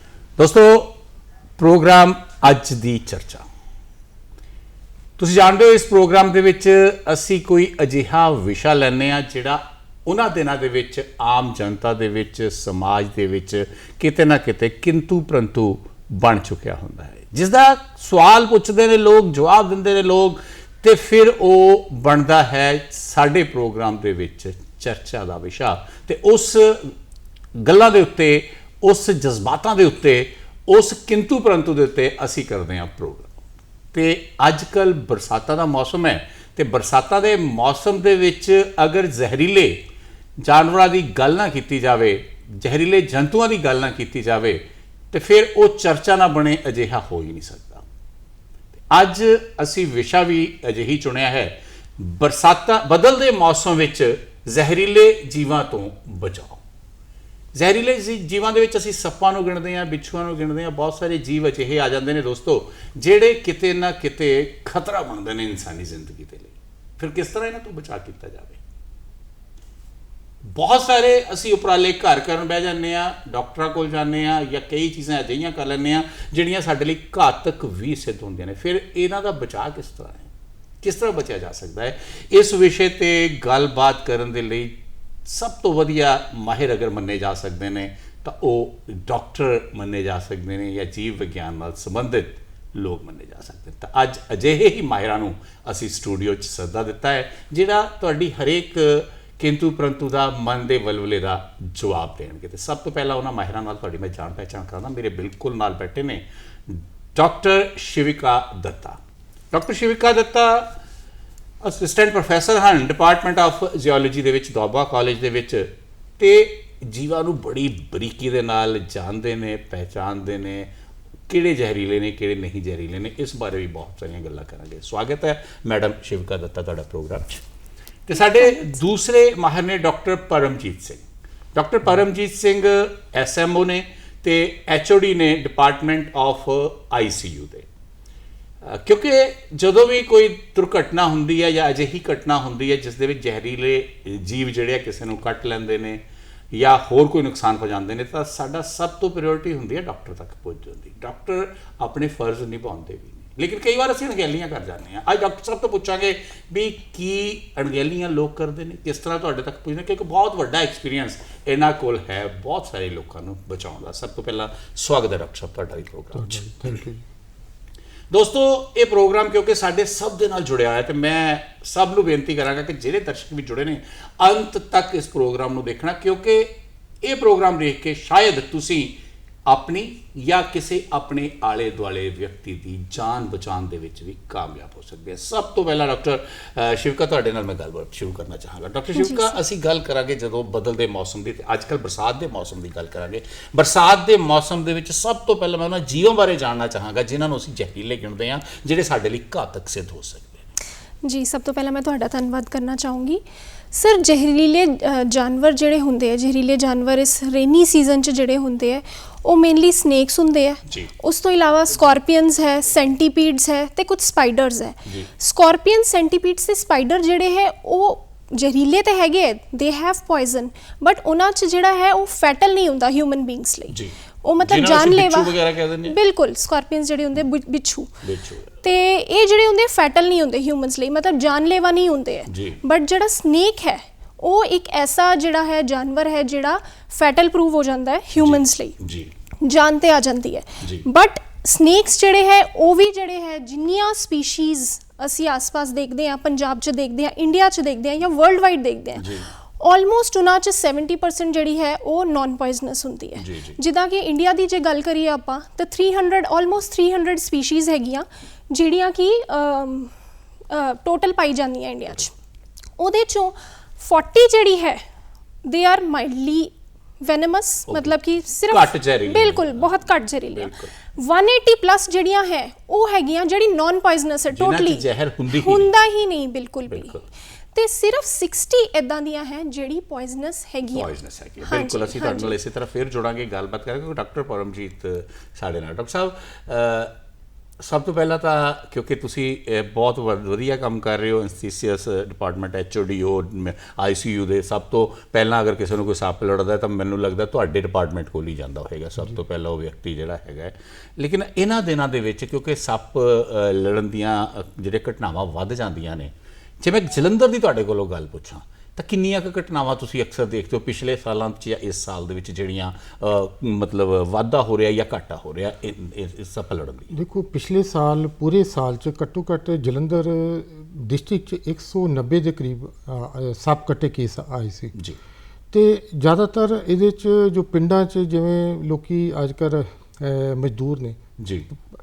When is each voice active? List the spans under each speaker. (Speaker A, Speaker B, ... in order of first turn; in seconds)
Speaker A: 0.4-1.0, 1.6-3.5, 5.2-26.9, 27.6-33.3, 33.9-39.8, 40.4-47.8, 48.9-56.6, 57.5-68.6, 70.5-80.3, 80.8-109.0, 109.5-110.7, 111.6-120.7, 121.3-127.4, 128.1-131.0, 131.5-137.7, 138.6-146.0, 146.5-166.7, 168.1-178.9, 179.5-200.4, 223.7-225.9, 228.0-228.5, 232.3-232.6, 238.2-239.1, 249.0-249.2, 253.2-253.6, 268.5-270.7, 274.3-275.7, 276.7-277.0, 280.7-286.9, 287.6-316.9, 331.2-331.4
Speaker B: 166.2-167.0, 316.9-324.7, 325.5-331.0
Speaker C: 188.9-189.4, 201.0-203.2, 203.7-227.9, 228.6-238.8, 239.4-259.9, 260.5-262.1, 262.8-264.8, 265.4-276.9, 277.5-280.9, 281.4-282.4